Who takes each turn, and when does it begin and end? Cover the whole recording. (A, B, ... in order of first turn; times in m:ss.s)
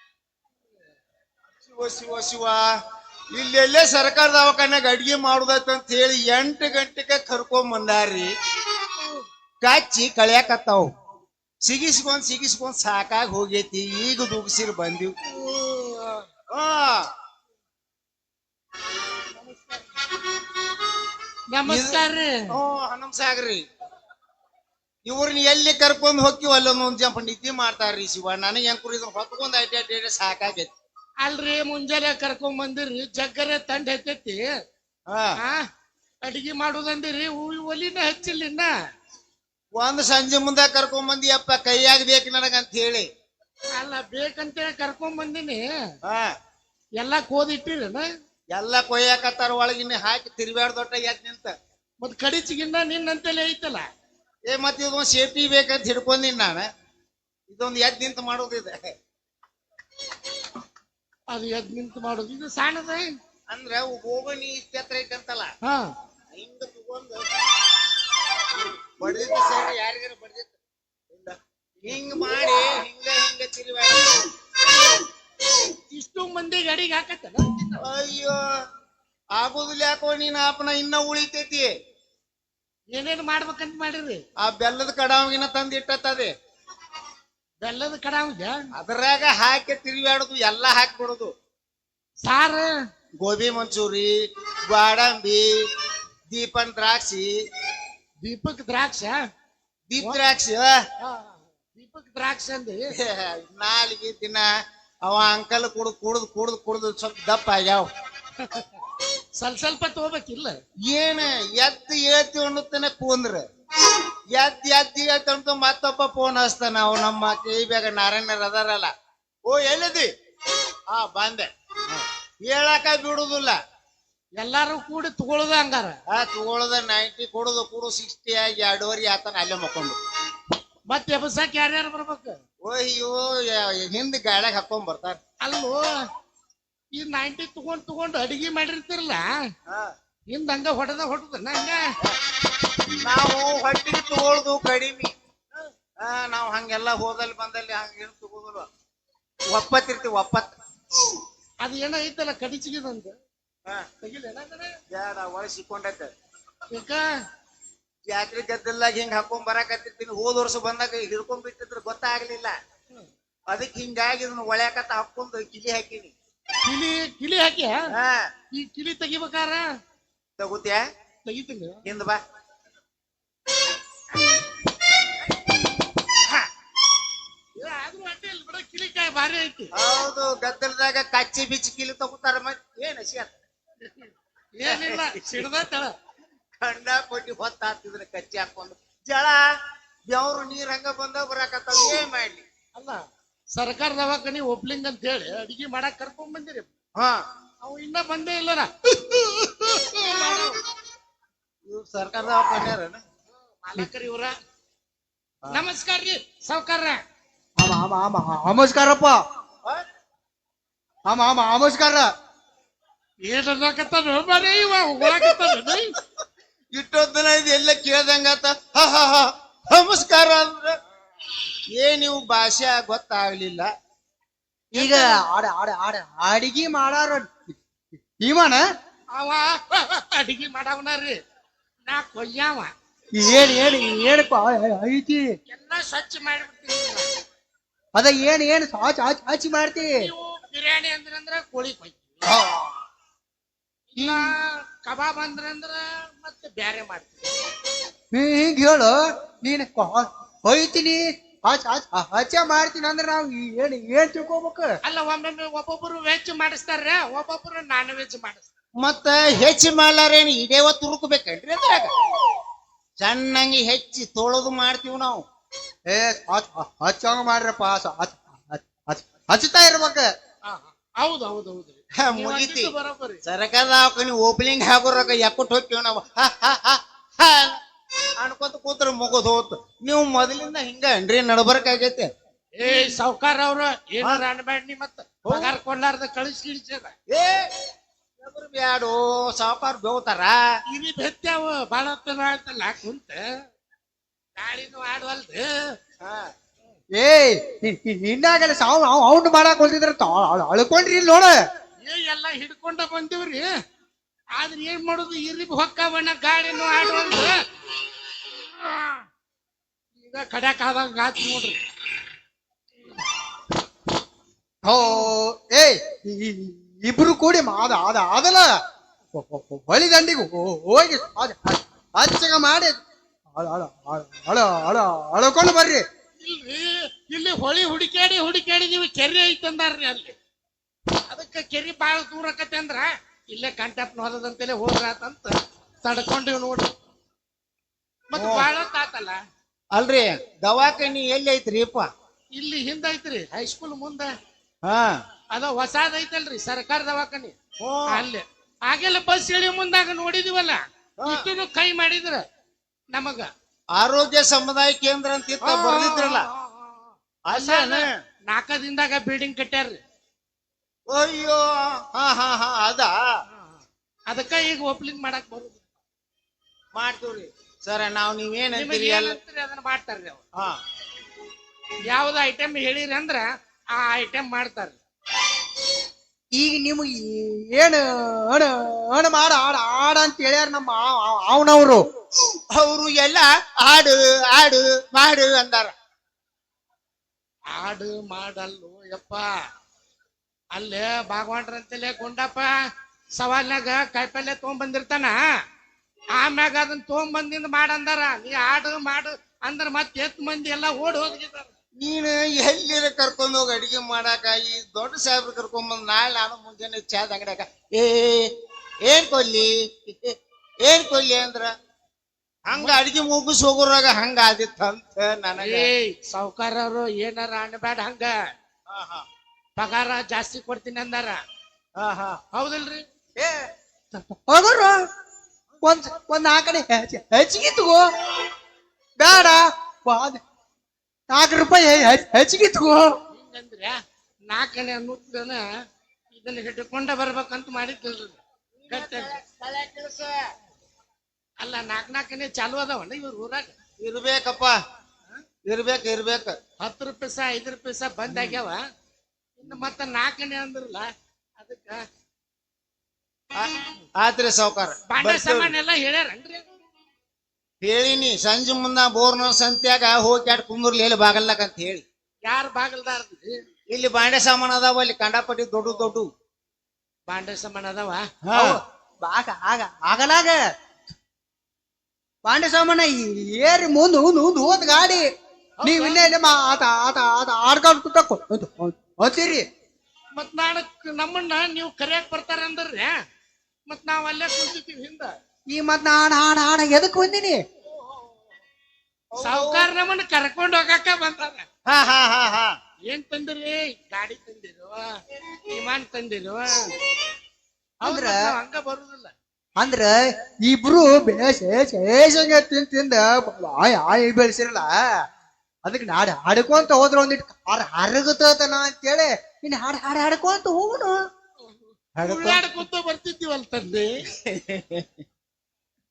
0:01.6-0:02.7 A
0:03.3-0:08.3 A
0:09.6-0:10.9 A
0:11.6-0:15.2 A
0:15.2-0:16.2 B
0:16.5-0:17.1 A
0:19.3-0:19.8 B
0:21.5-0:22.4 B
0:21.7-0:23.6 A
0:25.0-0:30.7 A
0:31.2-0:34.4 B
0:35.1-0:35.3 A
0:35.4-0:35.6 B
0:36.2-0:38.7 B
0:39.7-0:43.1 A
0:43.8-0:45.7 B
0:46.0-0:46.3 A
0:47.0-0:48.0 B
0:48.5-0:51.5 A
0:52.0-0:53.8 B
0:54.5-0:56.7 A
0:57.5-0:58.9 A
1:01.3-1:03.0 B
1:03.5-1:05.5 A
1:06.3-1:07.2 A
1:08.5-1:10.6 A
1:11.1-1:14.3 A
1:15.9-1:17.8 B
1:17.8-1:18.4 A
1:19.3-1:21.7 A
1:22.9-1:24.2 B
1:24.4-1:26.3 A
1:27.6-1:28.6 B
1:28.8-1:31.3 A
1:32.2-1:32.7 B
1:33.2-1:34.1 A
1:34.7-1:35.5 A
1:36.3-1:37.3 A
1:38.2-1:39.2 B
1:39.9-1:40.8 A
1:41.0-1:42.8 B
1:42.9-1:44.5 A
1:45.0-1:47.9 A
1:48.4-1:48.7 B
1:49.4-1:50.5 B
1:50.9-1:53.4 A
1:54.3-1:58.9 A
1:59.4-2:00.1 A
2:00.9-2:03.6 A
2:04.4-2:06.0 B
2:06.1-2:10.0 A
2:10.9-2:12.4 B
2:12.6-2:15.2 A
2:15.4-2:15.9 B
2:16.9-2:19.3 B
2:20.3-2:21.8 B
2:23.0-2:25.1 A
2:26.0-2:28.7 A
2:29.5-2:30.5 A
2:31.6-2:33.2 B
2:34.0-2:34.7 B
2:34.9-2:36.1 A
2:36.7-2:37.0 B
2:38.1-2:42.6 A
2:43.5-2:46.1 A
2:46.6-2:47.8 B
2:47.9-2:48.3 A
2:48.5-2:49.6 B
2:50.4-2:50.8 A
2:51.2-2:51.8 B
2:51.8-2:52.2 A
2:57.6-2:59.7 B
2:59.8-3:03.4 A
3:03.8-3:05.9 B
3:04.7-3:05.2 A
3:06.6-3:09.4 A
3:10.1-3:12.4 A
3:12.7-3:13.0 B
3:13.5-3:16.7 B
3:17.6-3:20.6 B
3:21.7-3:23.0 A
3:23.6-3:24.3 B
3:25.5-3:27.0 B
3:27.6-3:29.2 C
3:31.1-3:32.0 C
3:33.3-3:35.9 B
3:36.7-3:40.7 A
3:41.7-3:43.7 A
3:44.7-3:47.5 C
3:44.7-3:45.2 B
3:48.2-3:48.6 C
3:49.1-3:51.2 B
3:51.9-3:52.7 B
3:53.1-3:55.2 C
3:55.5-3:57.0 B
3:58.0-4:00.1 C
4:00.0-4:02.3 B
4:02.2-4:02.8 C
4:03.9-4:07.3 B
4:08.1-4:14.7 C
4:14.8-4:18.5 B
4:18.8-4:21.9 A
4:23.0-4:25.2 A
4:25.9-4:30.0 C
4:30.5-4:33.2 B
4:32.0-4:32.7 A
4:33.2-4:37.6 A
4:38.2-4:42.1 A
4:42.6-4:46.9 B
4:45.3-4:45.5 A
4:47.1-4:47.5 A
4:48.2-4:50.4 A
4:50.7-4:53.2 B
4:54.4-4:55.7 B
4:56.0-4:56.3 A
4:57.0-5:01.3 C
5:01.8-5:03.5 B
5:04.4-5:07.3 B
5:08.6-5:09.0 B
5:10.0-5:11.6 B
5:14.6-5:18.5 C
5:19.1-5:22.8 C
5:23.4-5:25.8 C
5:26.2-5:30.1 B
5:31.1-5:36.7 B
5:38.1-5:39.2 B
5:38.1-5:38.5 A
5:39.7-5:41.9 A
5:42.3-5:44.1 B
5:44.6-5:45.0 A
5:45.3-5:47.3 B
5:47.6-5:48.0 A
5:47.9-5:52.2 B
5:51.0-5:51.2 A
5:52.9-5:53.3 B
5:53.7-5:56.2 A
5:55.4-5:59.8 B
5:57.3-5:57.9 A
6:00.9-6:03.0 A
6:03.3-6:05.6 B
6:06.7-6:09.2 A
6:08.5-6:10.2 B
6:11.8-6:14.8 B
6:16.3-6:21.8 C
6:22.5-6:25.7 A
6:27.5-6:29.3 B
6:30.5-6:32.5 B
6:33.2-6:35.2 B
6:36.1-6:41.5 B
6:41.8-6:48.3 A
6:48.8-6:51.5 A
6:52.4-6:55.7 A
6:55.4-6:58.2 B
6:58.7-6:59.0 A
6:59.6-7:01.2 B
7:01.8-7:02.2 A
7:02.3-7:02.8 B
7:03.9-7:04.7 C
7:05.6-7:07.8 C
7:09.0-7:10.2 C
7:11.1-7:12.9 C
7:13.1-7:15.4 B
7:16.1-7:19.1 B
7:18.6-7:20.2 A
7:21.4-7:23.5 B
7:23.8-7:24.5 A
7:25.4-7:26.4 A
7:26.6-7:28.6 B
7:28.1-7:28.4 A
7:29.4-7:31.8 B
7:33.3-7:35.5 A
7:34.9-7:36.4 B
7:37.6-7:41.8 A
7:42.2-7:43.3 B
7:43.7-7:46.1 A
7:47.1-7:48.0 B
7:48.2-7:48.6 A
7:48.3-7:50.4 C
7:52.2-7:55.0 C
7:55.6-7:56.1 B
7:55.6-7:59.4 C
8:00.1-8:02.9 B
8:03.6-8:05.1 B
8:05.5-8:07.4 C
8:09.1-8:09.7 A
8:09.2-8:11.4 B
8:11.7-8:12.5 A
8:12.9-8:14.9 B
8:15.5-8:16.7 B
8:17.8-8:18.2 C
8:17.8-8:19.1 B
8:19.6-8:20.0 C
8:20.5-8:24.7 C
8:25.6-8:31.0 C
8:32.0-8:32.6 A
8:32.0-8:33.9 B
8:34.3-8:35.0 A